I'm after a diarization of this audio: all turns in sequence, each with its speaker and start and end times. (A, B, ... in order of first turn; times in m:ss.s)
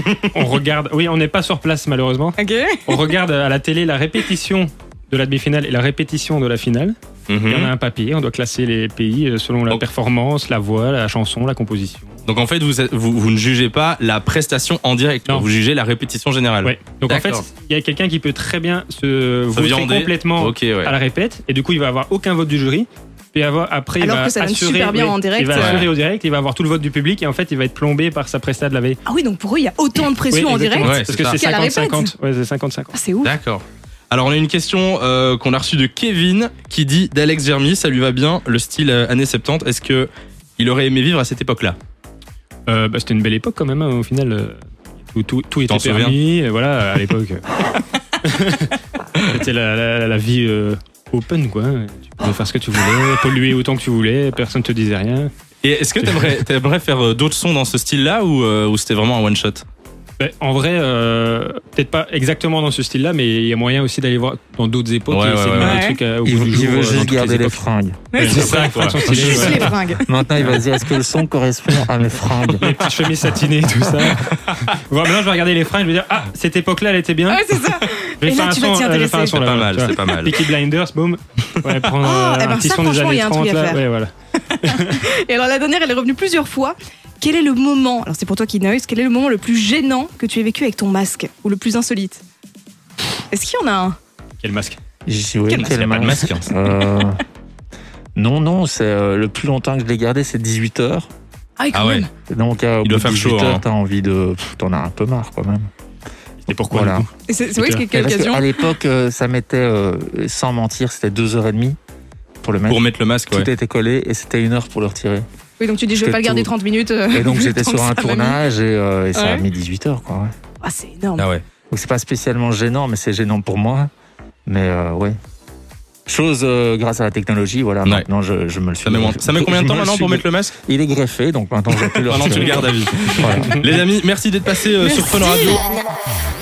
0:00.2-0:12.2 A
0:02.4-0:03.1 B
0:07.3-0:07.7 C
0:12.2-0:17.4 C
0:16.6-0:29.0 A
0:19.5-0:20.9 C
0:24.0-0:25.8 B
0:25.5-0:25.9 C
0:29.0-0:32.1 B
0:30.3-0:32.9 A
0:30.8-0:31.4 C
0:32.9-0:33.3 B
0:33.2-0:41.8 C
0:42.7-0:55.3 A
0:45.7-0:46.2 C
0:55.6-0:59.6 C
1:00.2-1:07.6 A
1:05.1-1:05.8 C
1:05.6-1:06.0 B
1:06.2-1:08.0 D
1:08.1-1:10.0 B
1:08.2-1:09.8 A
1:08.2-1:09.6 C
1:10.0-1:12.6 D
1:12.6-1:25.0 A
1:17.3-1:19.4 B
1:19.3-1:20.4 C
1:22.0-1:23.8 B
1:24.7-1:32.2 B
1:33.3-1:34.0 B
1:34.4-1:34.8 A
1:35.0-1:37.2 D
1:35.5-1:35.8 B
1:35.6-1:36.5 C
1:38.2-1:41.1 D
1:41.6-1:42.1 B
1:41.7-1:42.1 C
1:42.3-1:45.7 D
1:42.8-1:43.6 C
1:46.4-1:47.1 A
1:46.6-1:47.1 D
1:47.3-1:48.6 B
1:47.6-1:51.8 D
1:52.4-1:55.2 D
1:52.6-1:53.5 C
1:55.6-1:58.4 B
1:55.9-1:56.5 D
1:57.1-2:00.3 D
1:59.1-1:59.4 B
2:00.6-2:01.2 B
2:01.2-2:01.4 C
2:01.7-2:03.9 D
2:04.5-2:05.2 D
2:06.1-2:13.6 D
2:08.8-2:10.5 C
2:12.1-2:15.6 C
2:14.8-2:15.8 B